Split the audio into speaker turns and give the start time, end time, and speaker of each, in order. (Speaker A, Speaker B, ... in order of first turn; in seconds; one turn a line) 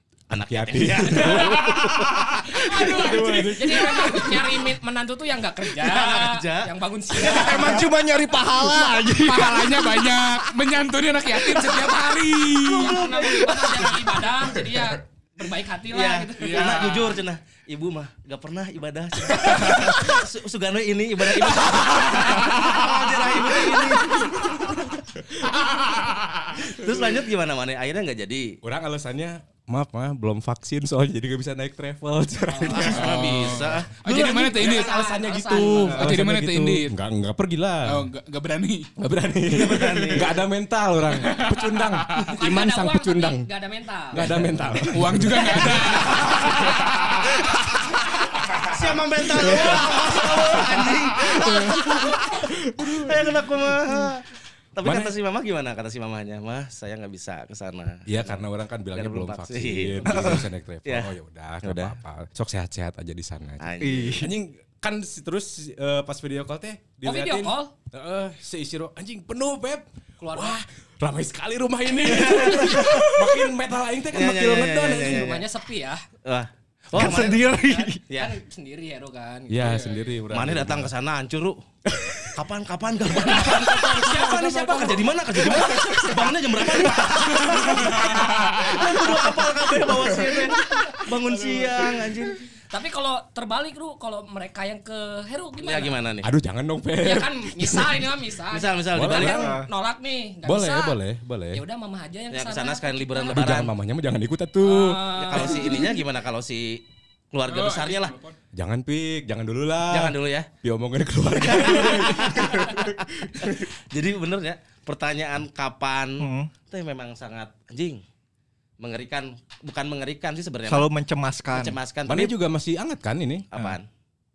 Speaker A: 0.3-2.1
Speaker B: 0.3-1.6
Speaker C: 1.4-4.2
Speaker B: 2.7-4.5
Speaker D: 3.5-7.8
Speaker A: 5.8-6.7
Speaker E: 7.1-10.5
Speaker C: 8.7-13.0
Speaker E: 11.4-11.9
Speaker A: 12.7-13.5
Speaker D: 12.8-16.9
Speaker E: 13.0-13.8
Speaker A: 15.9-24.8
Speaker C: 16.4-17.1
Speaker B: 24.1-24.8
Speaker C: 25.6-26.5
Speaker A: 26.6-28.6
Speaker B: 28.6-33.1
Speaker D: 32.5-33.1
Speaker A: 32.6-34.6
Speaker C: 32.9-34.9
Speaker B: 34.5-38.1
Speaker D: 34.5-36.2
Speaker C: 35.9-37.0
Speaker C: 37.9-38.9
Speaker B: 39.0-43.5
Speaker A: 39.5-40.5
Speaker C: 41.1-42.4
Speaker D: 42.3-44.4
Speaker B: 44.1-46.8
Speaker C: 44.5-47.3
Speaker D: 45.6-47.4
Speaker B: 48.4-48.8
Speaker A: 48.6-62.0
Speaker B: 49.3-53.2
Speaker B: 54.8-55.1
Speaker B: 58.1-75.3
Speaker A: 63.6-64.3
Speaker E: 63.8-64.3
Speaker D: 67.0-67.7
Speaker D: 70.2-70.6
Speaker A: 72.0-73.5
Speaker A: 74.1-75.5
Speaker D: 75.1-76.0
Speaker A: 76.2-77.5
Speaker E: 76.9-78.0
Speaker D: 77.0-80.2
Speaker A: 78.1-78.3
Speaker B: 79.5-80.9
Speaker A: 79.6-81.6
Speaker B: 81.9-82.3
Speaker A: 82.3-92.4
Speaker D: 83.1-85.0
Speaker B: 83.3-92.0
Speaker C: 88.0-88.7
Speaker D: 92.7-96.0
Speaker A: 95.6-96.3
Speaker B: 96.2-98.1
Speaker D: 97.0-101.0
Speaker A: 98.5-99.6
Speaker B: 98.9-99.6
Speaker E: 99.2-99.7
Speaker B: 100.4-101.6
Speaker D: 101.5-103.7
Speaker A: 102.3-103.8
Speaker B: 103.3-105.4
Speaker D: 104.6-105.9
Speaker A: 105.1-108.2
Speaker C: 107.4-108.4
Speaker B: 108.5-113.5
Speaker A: 109.9-110.5
Speaker A: 111.3-118.0
Speaker E: 116.2-116.5
Speaker A: 118.8-120.9
Speaker E: 120.7-121.8
Speaker A: 121.5-122.4
Speaker B: 122.1-123.5
Speaker A: 123.5-123.9